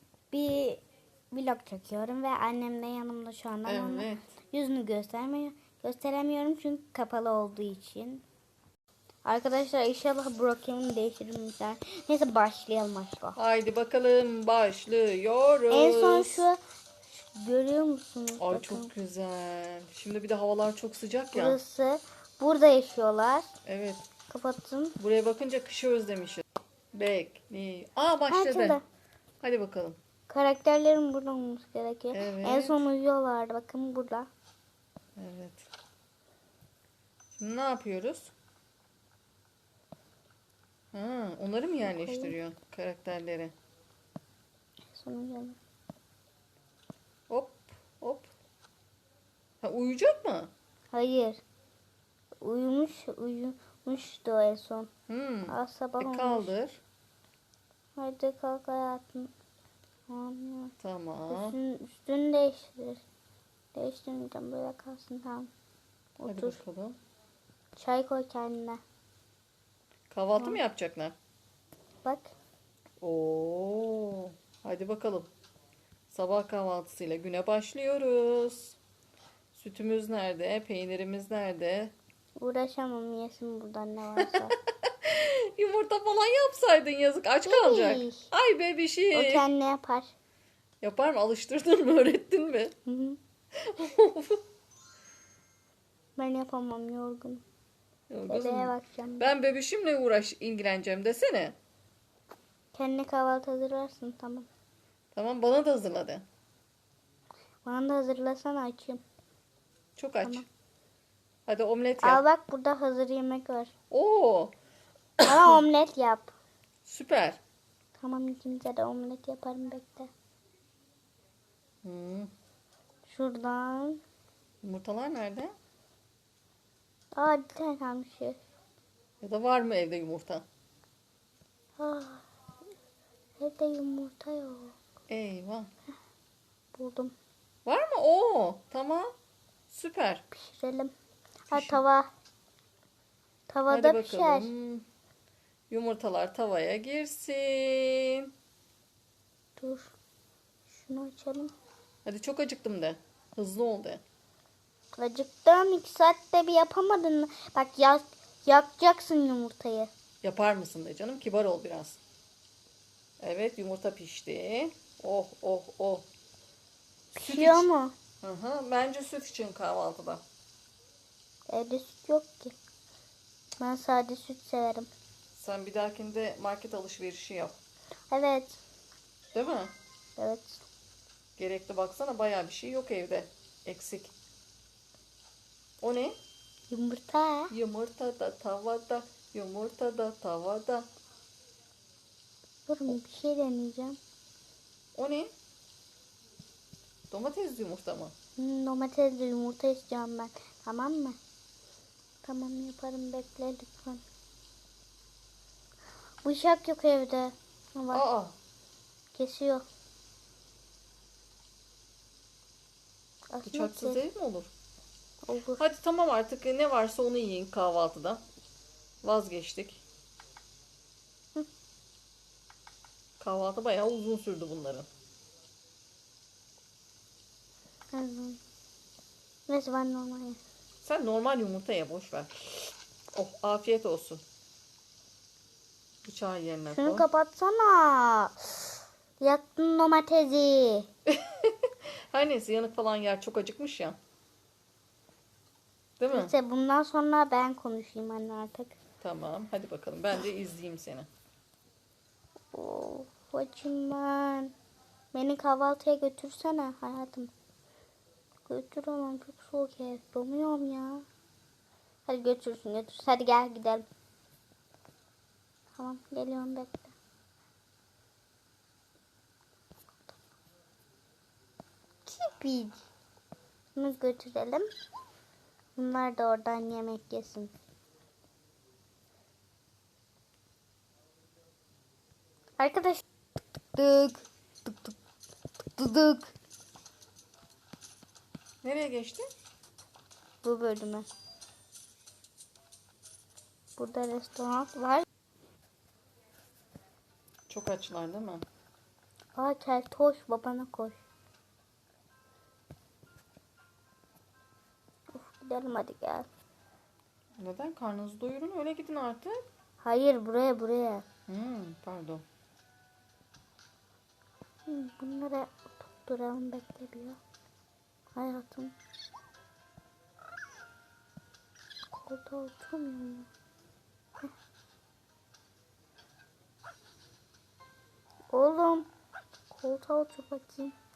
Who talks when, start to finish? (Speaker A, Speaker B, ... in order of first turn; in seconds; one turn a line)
Speaker A: 0.3-8.2
Speaker B: 3.6-4.3
Speaker A: 9.2-13.4
Speaker B: 13.3-16.4
Speaker A: 15.7-16.6
Speaker A: 17.2-18.9
Speaker B: 18.4-21.6
Speaker A: 21.3-23.5
Speaker B: 23.6-24.0
Speaker A: 24.3-25.0
Speaker B: 25.0-28.8
Speaker A: 28.3-28.8
Speaker B: 29.4-30.0
Speaker A: 30.3-34.3
Speaker B: 32.1-32.8
Speaker B: 35.2-35.7
Speaker B: 37.4-38.3
Speaker B: 40.9-43.5
Speaker A: 41.8-42.4
Speaker A: 44.9-45.6
Speaker B: 47.3-48.3
Speaker B: 49.6-50.5
Speaker A: 50.9-51.4
Speaker A: 52.4-54.9
Speaker B: 55.1-56.8
Speaker A: 55.5-56.5
Speaker A: 58.0-59.3
Speaker A: 60.1-60.7
Speaker B: 60.8-61.6
Speaker A: 61.3-63.0
Speaker A: 63.7-65.5
Speaker A: 66.2-66.6
Speaker B: 66.3-67.0
Speaker A: 67.8-68.8
Speaker B: 70.1-71.1
Speaker A: 72.0-72.3
Speaker B: 73.0-75.3
Speaker B: 76.1-78.8
Speaker B: 79.5-81.9
Speaker A: 82.3-84.5
Speaker B: 84.2-89.4
Speaker A: 87.5-88.3
Speaker A: 89.1-90.1
Speaker B: 90.8-92.7
Speaker A: 92.8-93.2
Speaker B: 93.6-94.4
Speaker A: 96.2-97.4
Speaker B: 98.1-101.6
Speaker A: 98.2-99.3
Speaker A: 102.7-104.5
Speaker B: 105.1-106.2
Speaker A: 107.6-109.0
Speaker B: 110.0-110.5
Speaker B: 111.5-112.2
Speaker A: 112.0-113.7
Speaker B: 113.9-114.5
Speaker B: 115.2-115.5
Speaker A: 115.2-116.3
Speaker B: 116.8-117.4
Speaker A: 118.0-120.1
Speaker B: 121.8-122.3
Speaker A: 123.1-124.0
Speaker B: 124.6-125.5
Speaker A: 127.1-128.4
Speaker B: 129.2-130.4
Speaker A: 131.8-132.2
Speaker A: 133.4-134.8
Speaker B: 135.1-135.7
Speaker A: 136.7-137.1
Speaker B: 137.6-139.1
Speaker B: 139.7-140.2
Speaker A: 140.3-140.9
Speaker A: 141.5-142.1
Speaker B: 141.5-141.8
Speaker A: 143.5-144.5
Speaker B: 143.7-144.8
Speaker B: 145.7-148.3
Speaker A: 149.6-149.9
Speaker A: 150.7-151.5
Speaker B: 152.0-154.0
Speaker A: 154.9-159.9
Speaker B: 160.2-162.0
Speaker B: 163.2-166.1
Speaker B: 167.1-167.7
Speaker A: 167.1-167.9
Speaker B: 168.2-170.2
Speaker A: 171.5-172.5
Speaker A: 173.6-174.9
Speaker B: 175.3-177.6
Speaker A: 178.1-178.6
Speaker B: 179.3-179.7
Speaker A: 180.2-180.6
Speaker B: 181.4-184.1
Speaker B: 185.8-186.2
Speaker A: 186.7-187.5
Speaker B: 187.5-190.9
Speaker A: 192.7-194.0
Speaker B: 194.9-195.3
Speaker B: 197.1-198.1
Speaker A: 198.4-201.2
Speaker A: 202.2-204.0
Speaker A: 206.2-208.0
Speaker B: 207.9-208.3
Speaker A: 209.1-209.6
Speaker A: 213.3-214.0
Speaker B: 213.4-214.5
Speaker A: 215.2-215.6
Speaker B: 215.6-218.2
Speaker B: 219.0-219.8
Speaker B: 223.2-224.9
Speaker A: 227.9-228.4
Speaker A: 229.5-230.4
Speaker B: 230.8-234.2
Speaker B: 236.0-237.1
Speaker A: 236.7-240.9
Speaker B: 241.1-244.0
Speaker B: 246.0-246.3
Speaker A: 246.1-248.8
Speaker B: 249.0-251.1
Speaker A: 252.5-254.5
Speaker A: 255.1-257.3
Speaker A: 258.4-261.0
Speaker A: 262.1-263.9
Speaker A: 265.8-266.9
Speaker A: 272.1-272.8
Speaker A: 273.7-274.7
Speaker A: 275.8-277.5
Speaker A: 282.6-283.0
Speaker A: 283.7-284.9
Speaker A: 285.7-286.3
Speaker B: 288.6-289.3
Speaker A: 290.4-291.1
Speaker A: 293.8-295.0
Speaker B: 297.5-298.4
Speaker A: 299.4-301.0
Speaker A: 305.1-306.3
Speaker B: 307.4-309.4
Speaker A: 309.8-311.0
Speaker B: 311.3-312.2
Speaker A: 314.7-317.2
Speaker A: 318.1-318.7
Speaker A: 321.9-323.3
Speaker A: 328.3-328.9
Speaker A: 329.5-330.7